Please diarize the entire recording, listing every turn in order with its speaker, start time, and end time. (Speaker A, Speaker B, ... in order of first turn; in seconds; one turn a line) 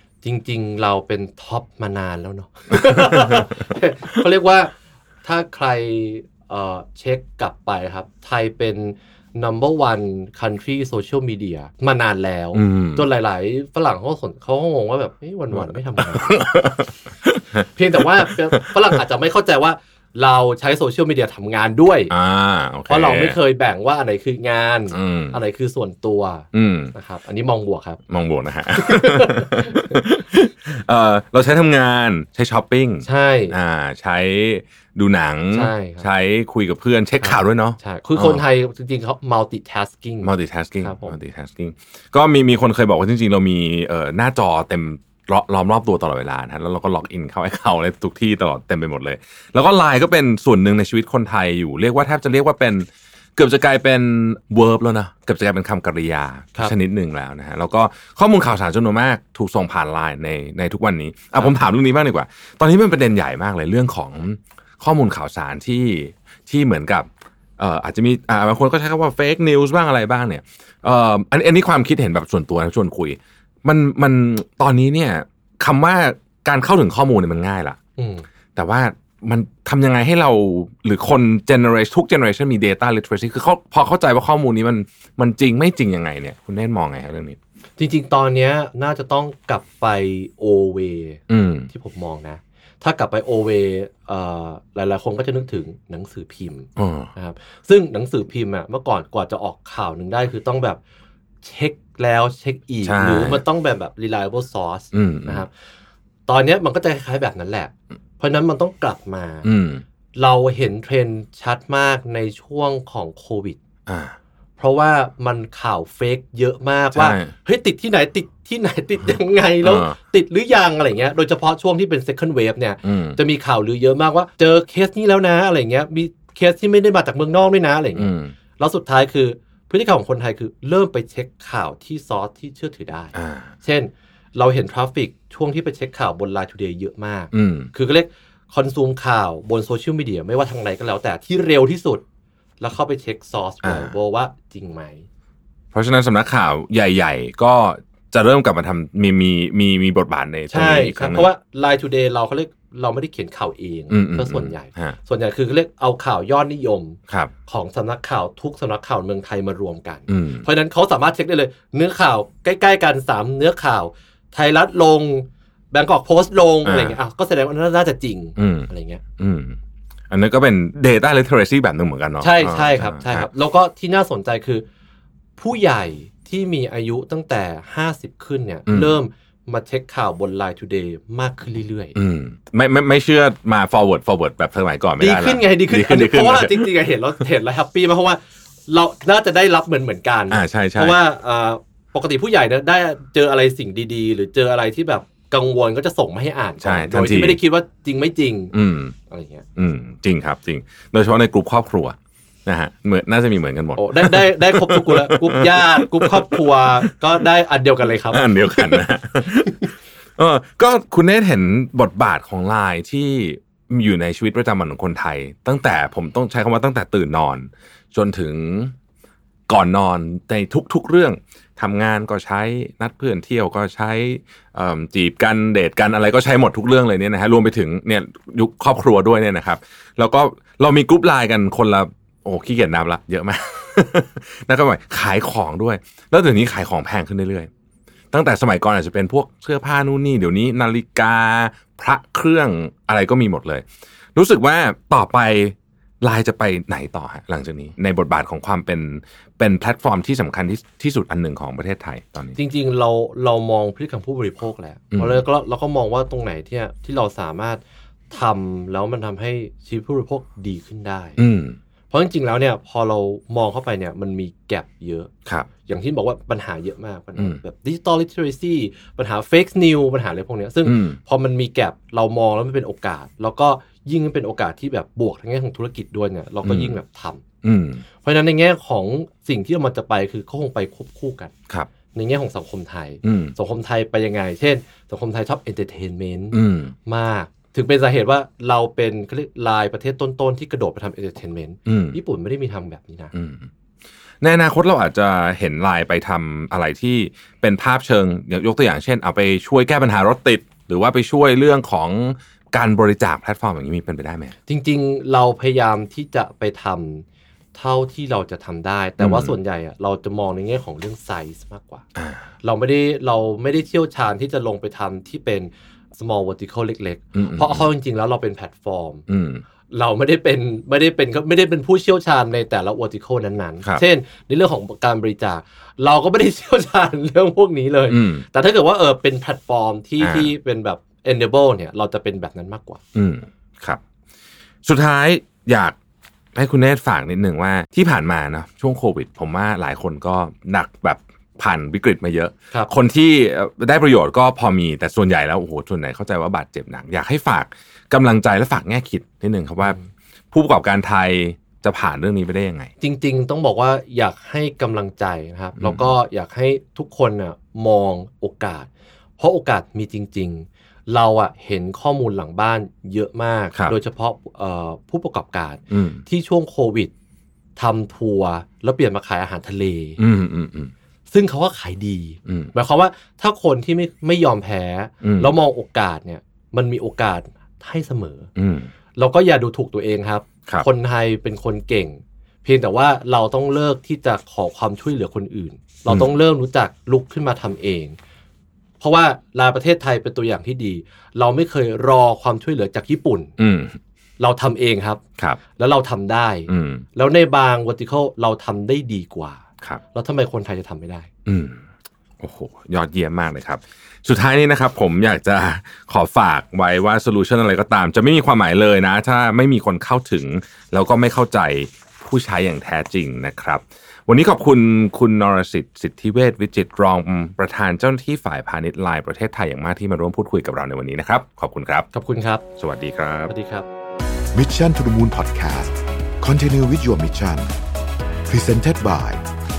Speaker A: 0.2-16.7
Speaker B: 2.7-3.6
Speaker B: 12.5-13.0
Speaker B: 15.5-18.9
Speaker A: 17.7-22.1
Speaker B: 22.1-23.4
Speaker A: 22.9-28.0
Speaker B: 24.9-25.4
Speaker B: 26.5-26.9
Speaker B: 28.1-38.4
Speaker A: 28.7-30.0
Speaker A: 33.0-33.5
Speaker A: 35.5-36.0
Speaker A: 37.2-40.3
Speaker B: 40.2-77.8
Speaker A: 40.8-41.2
Speaker A: 78.0-78.2
Speaker B: 78.5-87.4
Speaker A: 87.8-100.8
Speaker B: 91.3-91.7
Speaker B: 96.8-97.1
Speaker A: 101.4-105.5
Speaker B: 102.8-103.4
Speaker B: 104.9-105.5
Speaker A: 106.3-109.5
Speaker B: 109.4-109.8
Speaker A: 110.1-113.6
Speaker B: 113.9-114.2
Speaker A: 114.6-142.0
Speaker B: 116.9-117.3
Speaker B: 119.6-120.0
Speaker B: 122.8-123.2
Speaker B: 127.9-128.3
Speaker B: 133.1-133.5
Speaker B: 137.3-137.7
Speaker A: 142.6-145.1
Speaker B: 143.6-143.9
Speaker B: 145.7-151.3
Speaker A: 150.5-169.0
Speaker B: 153.9-154.9
Speaker B: 160.1-160.4
Speaker B: 166.6-167.0
Speaker B: 168.4-169.6
Speaker B: 170.1-173.3
Speaker A: 172.2-174.7
Speaker A: 175.4-181.9
Speaker B: 178.7-179.0
Speaker B: 181.9-186.7
Speaker A: 185.0-198.5
Speaker B: 190.3-191.0
Speaker B: 196.6-197.4
Speaker B: 198.5-198.9
Speaker A: 199.1-199.4
Speaker B: 199.6-206.9
Speaker A: 203.8-208.8
Speaker B: 208.1-218.7
Speaker A: 209.4-209.7
Speaker B: 219.5-237.5
Speaker B: 238.1-252.4
Speaker A: 252.3-261.2
Speaker B: 254.9-255.2
Speaker B: 261.2-261.6
Speaker A: 261.9-265.1
Speaker A: 265.6-277.2
Speaker B: 270.6-271.0
Speaker B: 276.4-276.8
Speaker B: 277.4-277.8
Speaker A: 278.0-281.3
Speaker A: 281.9-293.1
Speaker B: 283.0-283.3
Speaker B: 286.3-286.7
Speaker B: 291.6-292.0
Speaker B: 293.1-293.5
Speaker B: 294.2-304.3
Speaker A: 304.5-311.8
Speaker B: 309.0-309.4
Speaker B: 311.9-312.3
Speaker A: 312.4-319.0
Speaker B: 317.1-317.7
Speaker B: 319.1-319.4
Speaker A: 319.7-332.8
Speaker B: 327.9-328.2
Speaker B: 330.0-330.3
Speaker B: 332.9-333.8
Speaker B: 334.6-335.8
Speaker B: 336.3-349.8
Speaker B: 350.3-352.7
Speaker A: 352.8-366.9
Speaker B: 355.6-355.9
Speaker B: 365.7-366.0
Speaker A: 367.6-370.0
Speaker B: 370.0-370.7
Speaker A: 371.1-378.3
Speaker B: 372.2-372.5
Speaker B: 375.0-375.3
Speaker B: 378.4-378.7
Speaker A: 378.9-388.0
Speaker B: 385.9-386.1
Speaker A: 388.8-393.3
Speaker B: 393.4-393.8
Speaker A: 394.2-395.0
Speaker A: 395.6-399.4
Speaker B: 396.5-396.8
Speaker A: 399.9-401.1
Speaker B: 401.2-401.6
Speaker B: 402.2-421.9
Speaker A: 421.9-422.4
Speaker B: 422.6-423.3
Speaker A: 423.3-423.6
Speaker C: 424.3-427.5
Speaker C: 428.3-429.2